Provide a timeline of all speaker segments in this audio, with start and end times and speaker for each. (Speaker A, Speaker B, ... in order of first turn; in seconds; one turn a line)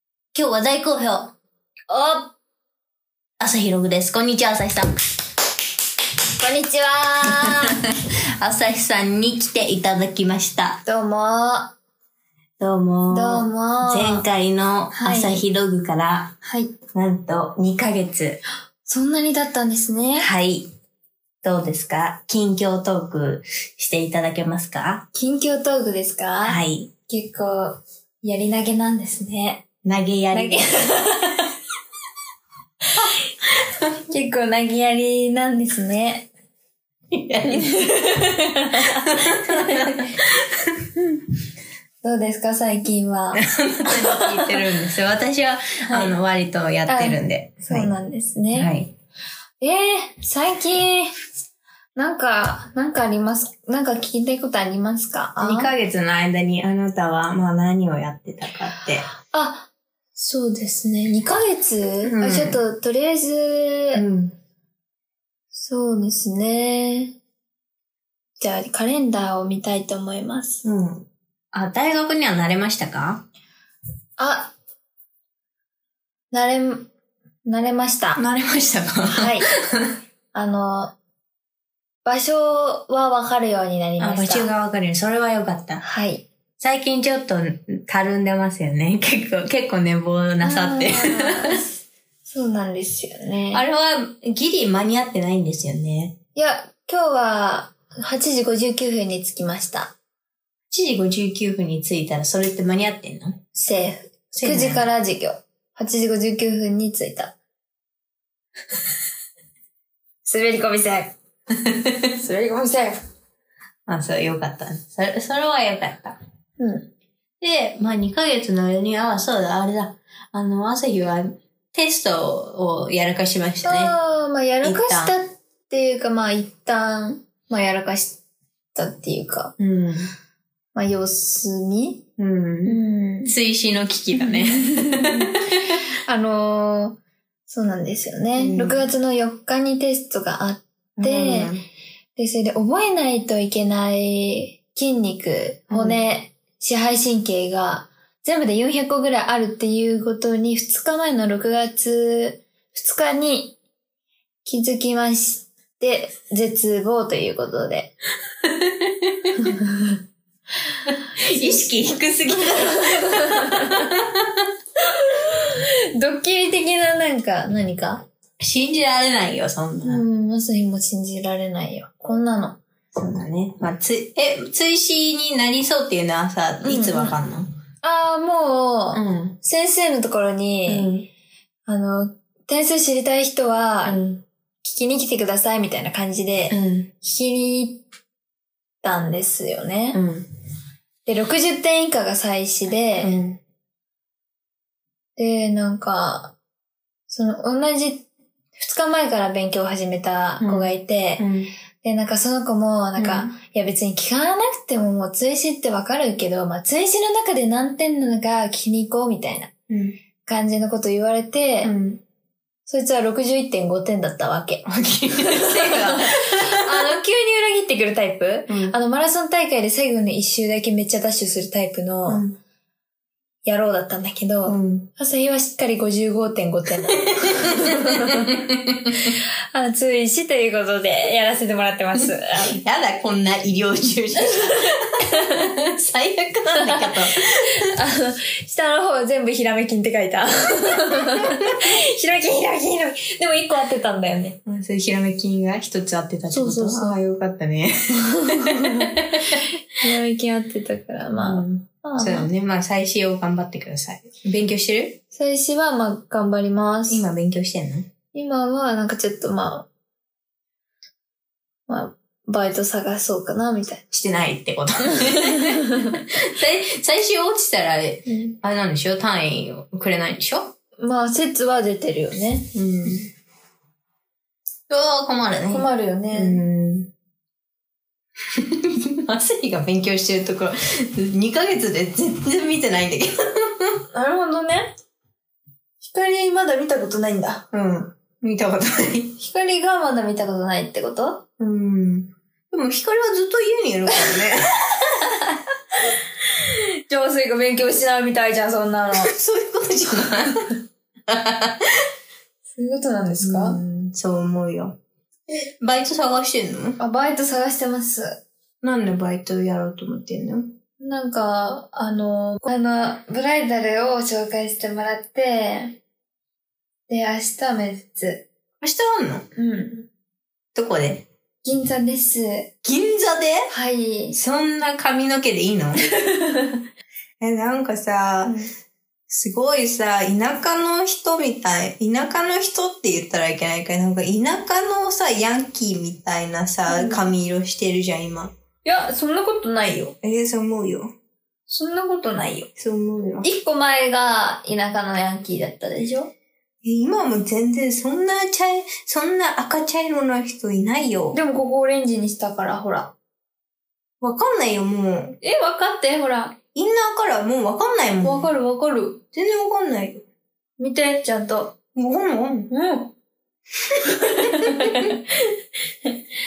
Speaker A: 0.3-1.3
Speaker B: 1.9-2.3
Speaker A: 3.4-4.9
Speaker B: 6.4-7.8
Speaker A: 7.4-10.8
Speaker B: 10.8-11.7
Speaker A: 12.6-16.3
Speaker B: 13.1-14.3
Speaker B: 14.9-15.4
Speaker B: 16.4-16.8
Speaker A: 16.9-18.4
Speaker B: 18.8-20.3
Speaker A: 20.2-20.7
Speaker A: 21.4-25.1
Speaker B: 25.1-29.6
Speaker A: 26.4-26.9
Speaker A: 29.8-30.9
Speaker B: 30.3-31.5
Speaker B: 34.1-36.3
Speaker A: 37.1-37.8
Speaker B: 37.4-40.1
Speaker A: 39.0-41.2
Speaker B: 42.0-44.6
Speaker A: 43.4-47.9
Speaker B: 45.9-46.1
Speaker B: 46.9-48.7
Speaker A: 48.5-48.9
Speaker B: 49.6-51.2
Speaker B: 52.0-55.7
Speaker A: 55.4-59.1
Speaker B: 59.1-64.0
Speaker A: 62.0-62.6
Speaker A: 63.9-64.3
Speaker B: 65.5-67.2
Speaker B: 68.4-70.6
Speaker A: 70.6-73.2
Speaker B: 74.2-74.5
Speaker B: 76.3-76.9
Speaker B: 77.4-78.2
Speaker A: 78.2-79.9
Speaker B: 79.1-79.5
Speaker B: 80.3-80.9
Speaker B: 82.0-84.5
Speaker A: 84.0-85.8
Speaker B: 85.8-86.2
Speaker A: 86.6-91.6
Speaker B: 90.4-93.6
Speaker A: 93.5-96.2
Speaker B: 96.3-99.9
Speaker A: 100.7-103.4
Speaker B: 103.5-107.3
Speaker A: 104.3-104.9
Speaker B: 110.2-111.1
Speaker A: 111.7-112.0
Speaker B: 112.1-113.0
Speaker A: 113.9-116.2
Speaker B: 116.6-116.9
Speaker A: 117.4-124.0
Speaker B: 123.6-128.2
Speaker A: 124.6-125.1
Speaker B: 128.7-129.5
Speaker A: 129.6-130.1
Speaker B: 130.7-132.1
Speaker A: 132.2-135.6
Speaker B: 132.6-133.3
Speaker B: 134.2-135.4
Speaker B: 136.1-141.5
Speaker A: 138.4-138.9
Speaker A: 141.0-141.6
Speaker B: 142.2-153.6
Speaker A: 145.7-146.0
Speaker B: 154.4-157.9
Speaker A: 158.4-159.6
Speaker B: 159.6-159.9
Speaker A: 160.9-164.5
Speaker B: 161.3-161.6
Speaker B: 162.3-163.9
Speaker B: 164.8-168.1
Speaker A: 168.4-170.0
Speaker B: 169.8-172.6
Speaker A: 172.9-177.5
Speaker B: 176.6-177.2
Speaker B: 177.8-181.0
Speaker A: 178.9-179.4
Speaker A: 180.7-181.1
Speaker B: 181.7-184.0
Speaker A: 183.8-184.2
Speaker B: 184.6-187.8
Speaker A: 186.5-186.9
Speaker B: 188.8-190.0
Speaker A: 189.9-190.3
Speaker B: 191.1-193.1
Speaker A: 193.0-193.4
Speaker B: 195.2-196.3
Speaker B: 197.1-201.2
Speaker A: 200.4-201.5
Speaker B: 201.8-209.5
Speaker A: 203.0-203.3
Speaker A: 209.7-210.0
Speaker B: 210.2-211.7
Speaker A: 211.6-212.0
Speaker B: 212.7-222.2
Speaker A: 214.7-216.8
Speaker A: 218.5-218.8
Speaker A: 222.1-222.4
Speaker B: 223.4-228.4
Speaker A: 224.4-224.9
Speaker A: 227.1-229.2
Speaker B: 229.0-232.6
Speaker A: 231.9-237.7
Speaker B: 234.2-235.5
Speaker B: 236.6-244.4
Speaker A: 241.2-241.5
Speaker A: 244.4-249.5
Speaker B: 246.3-247.0
Speaker B: 247.9-249.0
Speaker B: 249.8-252.3
Speaker A: 251.1-255.0
Speaker B: 255.1-257.1
Speaker A: 256.9-257.9
Speaker B: 258.1-259.7
Speaker B: 261.7-263.8
Speaker A: 263.9-270.5
Speaker B: 265.0-265.9
Speaker B: 268.1-268.4
Speaker B: 270.8-272.5
Speaker A: 272.5-273.1
Speaker A: 274.7-276.9
Speaker B: 275.5-276.4
Speaker A: 278.3-283.8
Speaker B: 283.9-284.7
Speaker B: 285.8-287.4
Speaker A: 287.5-289.2
Speaker B: 289.2-291.2
Speaker A: 291.4-294.8
Speaker B: 295.1-299.1
Speaker A: 299.0-301.9
Speaker B: 302.5-303.6
Speaker A: 303.2-306.8
Speaker B: 306.8-308.2
Speaker A: 308.6-310.5
Speaker B: 310.8-315.8
Speaker B: 316.9-318.3
Speaker A: 318.6-319.3
Speaker B: 319.4-319.9
Speaker A: 320.5-321.1
Speaker B: 321.4-322.5
Speaker A: 322.6-323.5
Speaker B: 323.5-324.2
Speaker A: 324.1-325.9
Speaker B: 325.9-326.6
Speaker A: 327.2-328.3
Speaker B: 328.2-328.5
Speaker A: 329.1-338.3
Speaker B: 336.7-337.1
Speaker B: 338.6-339.9
Speaker A: 340.0-340.9
Speaker B: 341.5-342.5
Speaker A: 342.5-343.3
Speaker B: 343.2-346.1
Speaker A: 346.6-351.1
Speaker B: 351.1-352.9
Speaker A: 354.0-355.2
Speaker B: 355.2-356.4
Speaker A: 356.5-358.3
Speaker B: 358.0-359.0
Speaker A: 359.1-360.0
Speaker B: 360.6-361.6
Speaker A: 361.7-362.5
Speaker B: 362.5-362.9
Speaker B: 363.8-365.3
Speaker A: 364.4-364.9